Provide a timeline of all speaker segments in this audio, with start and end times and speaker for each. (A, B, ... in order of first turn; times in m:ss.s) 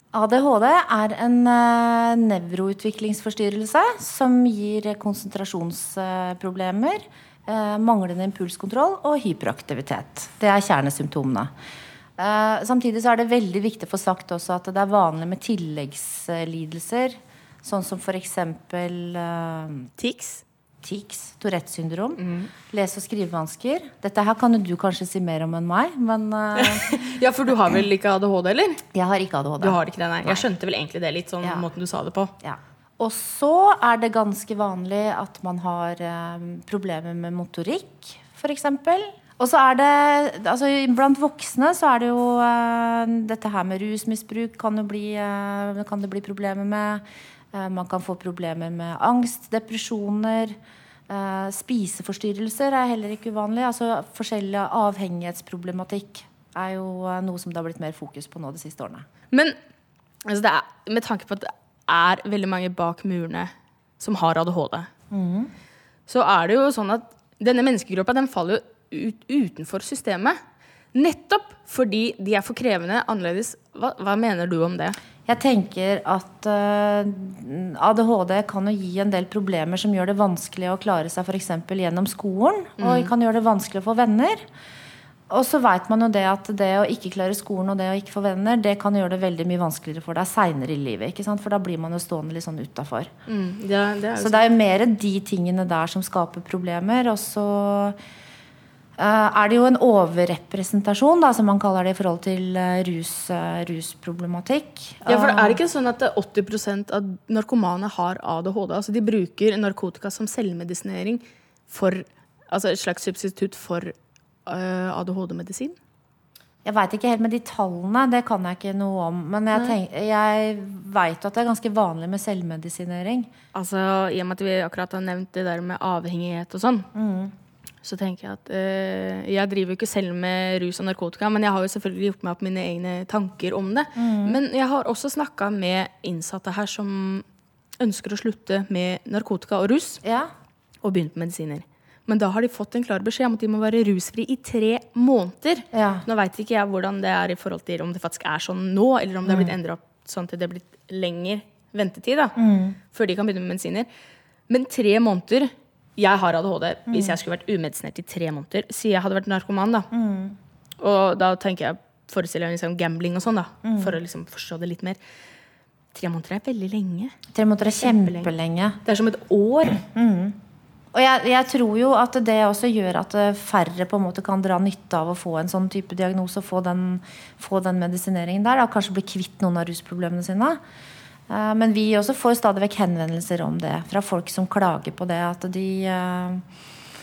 0:00.1-0:11.5 A
0:12.2-0:19.9 A
0:20.0-0:20.4 B
0:20.8-0:27.0 A
0:22.2-0:22.5 B
0:26.6-0:28.8 B
0:28.9-0:30.4 A
0:29.6-0:32.3 B
0:31.4-0:31.7 A
0:32.4-0:50.6 A
0:51.1-0:59.1 A
1:00.2-1:04.9 B
1:05.1-1:05.5 A
1:06.1-1:10.4 B
1:10.9-1:15.0 B
1:15.3-1:24.4 A
1:22.8-1:23.1 B
1:25.3-1:33.1 A
1:33.3-1:34.4 B
1:34.2-1:38.0 A
1:39.0-1:45.6 A
1:45.1-1:53.9 B
1:54.4-1:55.8 B
1:56.6-2:03.3 A
2:03.5-2:06.9 B
2:06.9-2:07.3 A
2:07.8-2:17.2 B
2:14.0-2:14.4 A
2:17.8-2:20.0 B
2:20.0-2:20.3 A
2:20.8-2:32.3 B
2:25.7-2:26.1 A
2:29.2-2:29.5 A
2:32.4-2:32.8 A
2:32.9-2:33.9 B
2:34.5-2:39.9 B
2:36.9-2:37.2 A
2:39.9-2:40.4 A
2:40.8-2:45.0 B
2:43.6-2:44.0 A
2:45.9-2:47.1 B
2:47.3-2:48.8 A
2:47.8-2:48.3 B
2:48.8-2:49.8 B
2:49.9-2:50.4 A
2:50.9-3:00.6 A
3:01.3-3:06.4 A